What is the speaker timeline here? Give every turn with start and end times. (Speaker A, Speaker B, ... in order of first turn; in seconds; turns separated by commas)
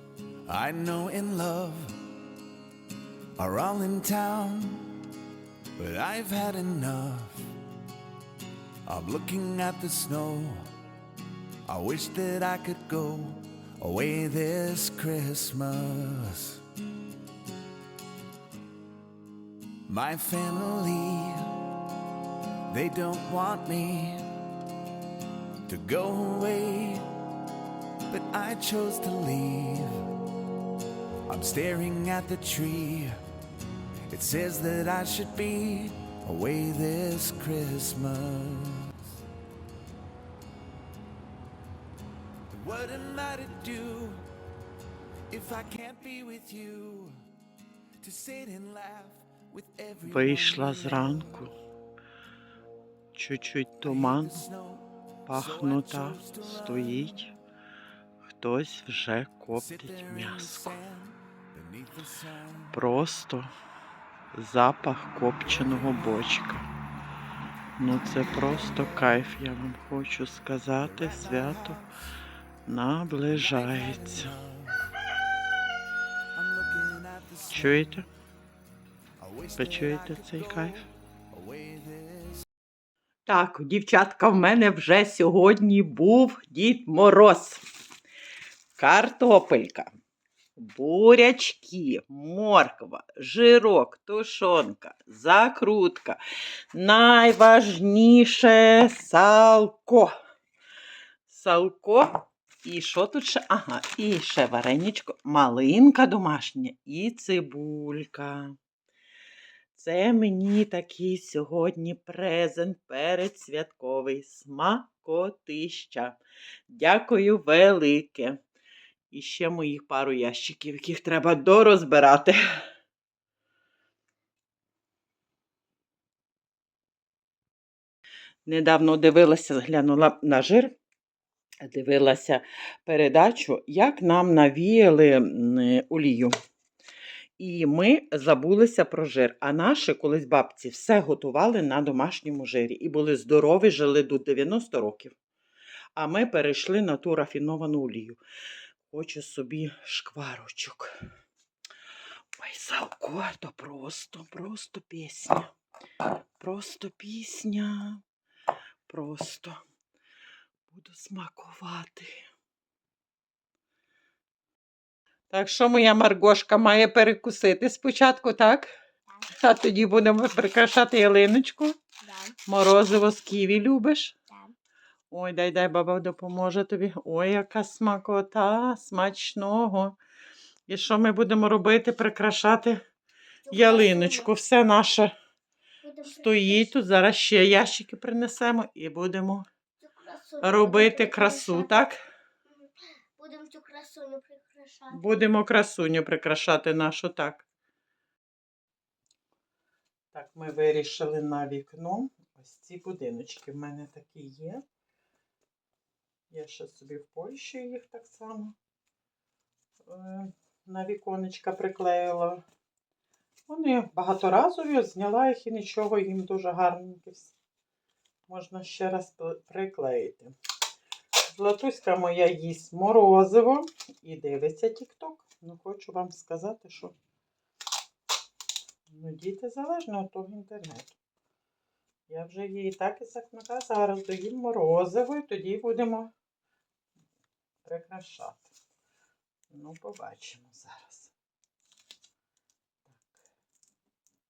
Speaker A: 0.5-1.9, Speaker A: 3.4-4.9, Speaker A: 5.8-7.5, Speaker A: 8.9-10.7, Speaker A: 11.7-16.6, Speaker A: 19.9-21.5, Speaker A: 22.7-24.2, Speaker A: 25.7-27.0, Speaker A: 28.1-29.9, Speaker A: 31.3-33.1, Speaker A: 34.1-39.1, Speaker A: 42.5-44.2, Speaker A: 45.3-47.1, Speaker A: 48.0-51.5, Speaker B: 50.0-51.5, Speaker B: 53.1-54.4, Speaker A: 53.8-57.3, Speaker B: 55.3-57.3, Speaker B: 58.4-60.8, Speaker A: 59.5-62.8, Speaker B: 62.7-63.5, Speaker B: 64.3-66.7, Speaker A: 65.5-66.4, Speaker B: 67.8-71.8, Speaker A: 67.9-69.2, Speaker A: 70.8-71.9, Speaker B: 72.7-74.3, Speaker A: 73.3-74.8, Speaker A: 76.3-77.9, Speaker B: 77.5-78.1, Speaker A: 79.2-82.4, Speaker B: 79.6-80.8, Speaker B: 83.3-87.6, Speaker B: 88.8-89.9, Speaker B: 90.6-96.2, Speaker B: 96.7-100.1, Speaker B: 101.3-108.5, Speaker B: 109.7-118.4, Speaker B: 119.1-122.4, Speaker B: 128.4-130.7, Speaker B: 131.6-136.3, Speaker B: 137.4-145.1, Speaker B: 145.9-148.2, Speaker B: 148.9-150.9, Speaker B: 152.4-155.5, Speaker B: 156.4-158.0, Speaker B: 158.9-159.6, Speaker B: 160.7-162.2, Speaker B: 165.3-168.7, Speaker B: 169.4-171.7, Speaker C: 172.0-172.3, Speaker B: 172.4-174.2, Speaker B: 175.1-179.9, Speaker B: 180.7-182.8, Speaker C: 183.4-184.3, Speaker B: 183.5-185.1, Speaker C: 185.8-186.8, Speaker B: 186.0-189.4, Speaker C: 189.8-191.9, Speaker B: 190.4-192.0, Speaker C: 192.5-195.2, Speaker B: 194.9-197.4, Speaker B: 200.1-204.6, Speaker B: 206.3-208.5, Speaker B: 209.9-212.4, Speaker B: 213.5-217.3, Speaker B: 218.3-220.3, Speaker B: 221.3-226.9, Speaker B: 228.9-230.9, Speaker B: 232.1-236.1, Speaker B: 237.6-238.5, Speaker B: 239.5-241.1, Speaker B: 242.9-243.2